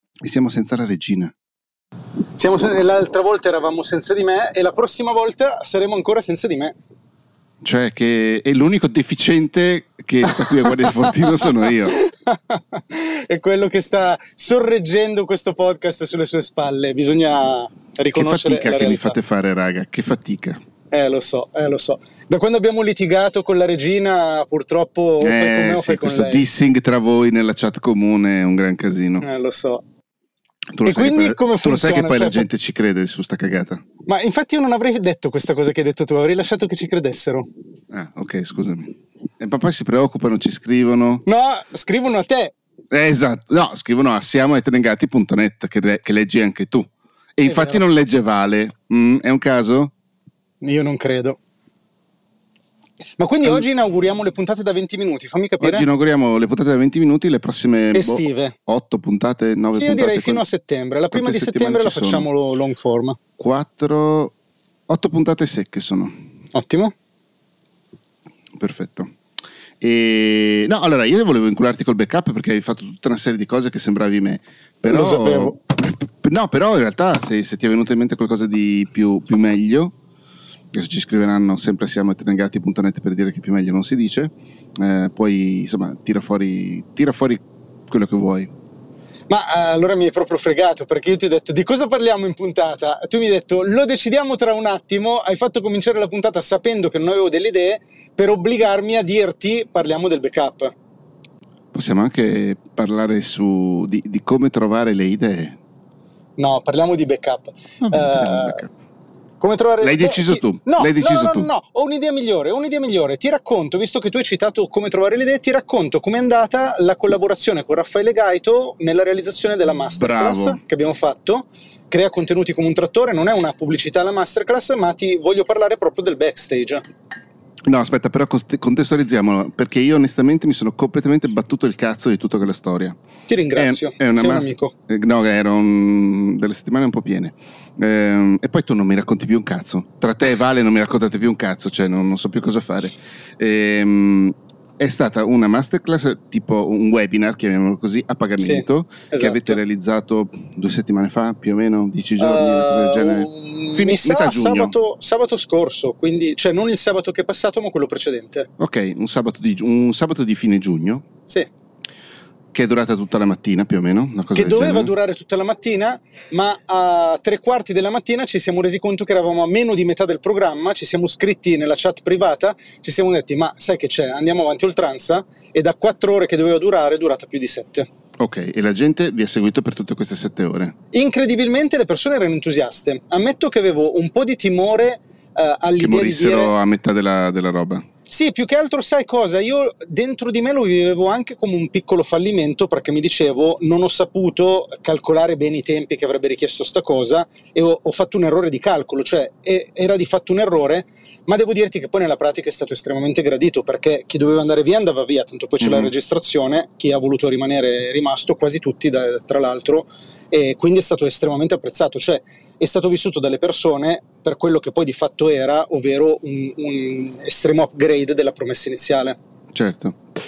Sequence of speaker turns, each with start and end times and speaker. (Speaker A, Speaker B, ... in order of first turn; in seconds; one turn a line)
Speaker A: 0.2-1.3
Speaker B: 2.4-6.8
Speaker A: 7.6-11.9
Speaker B: 10.6-11.1
Speaker B: 11.9-19.1
Speaker A: 18.1-20.6
Speaker B: 20.9-26.4
Speaker A: 25.2-29.2
Speaker B: 29.2-29.8
Speaker A: 30.8-33.8
Speaker B: 30.8-32.5
Speaker B: 34.0-37.5
Speaker A: 37.9-41.2
Speaker B: 41.2-42.5
Speaker A: 42.9-49.9
Speaker B: 47.4-47.9
Speaker B: 50.6-51.4
Speaker B: 53.2-55.9
Speaker A: 55.6-60.4
Speaker B: 57.9-58.5
Speaker B: 59.7-63.2
Speaker A: 61.1-62.3
Speaker A: 63.4-64.3
Speaker A: 64.9-66.1
Speaker B: 66.5-66.9
Speaker A: 68.6-69.1
Speaker A: 69.8-79.9
Speaker B: 74.8-75.6
Speaker A: 80.7-88.5
Speaker B: 89.3-100.7
Speaker A: 101.7-105.6
Speaker B: 106.4-108.6
Speaker A: 107.8-108.7
Speaker B: 109.4-126.8
Speaker A: 109.8-111.5
Speaker A: 119.9-120.6
Speaker A: 127.7-133.0
Speaker B: 133.3-134.7
Speaker A: 133.6-154.7
Speaker B: 148.4-149.6
Speaker B: 152.2-158.5
Speaker A: 158.6-161.0
Speaker A: 162.5-164.9
Speaker B: 164.3-177.9
Speaker A: 178.2-180.7
Speaker B: 180.9-186.5
Speaker A: 185.8-187.8
Speaker B: 188.1-219.2
Speaker A: 205.6-205.9
Speaker A: 219.5-220.0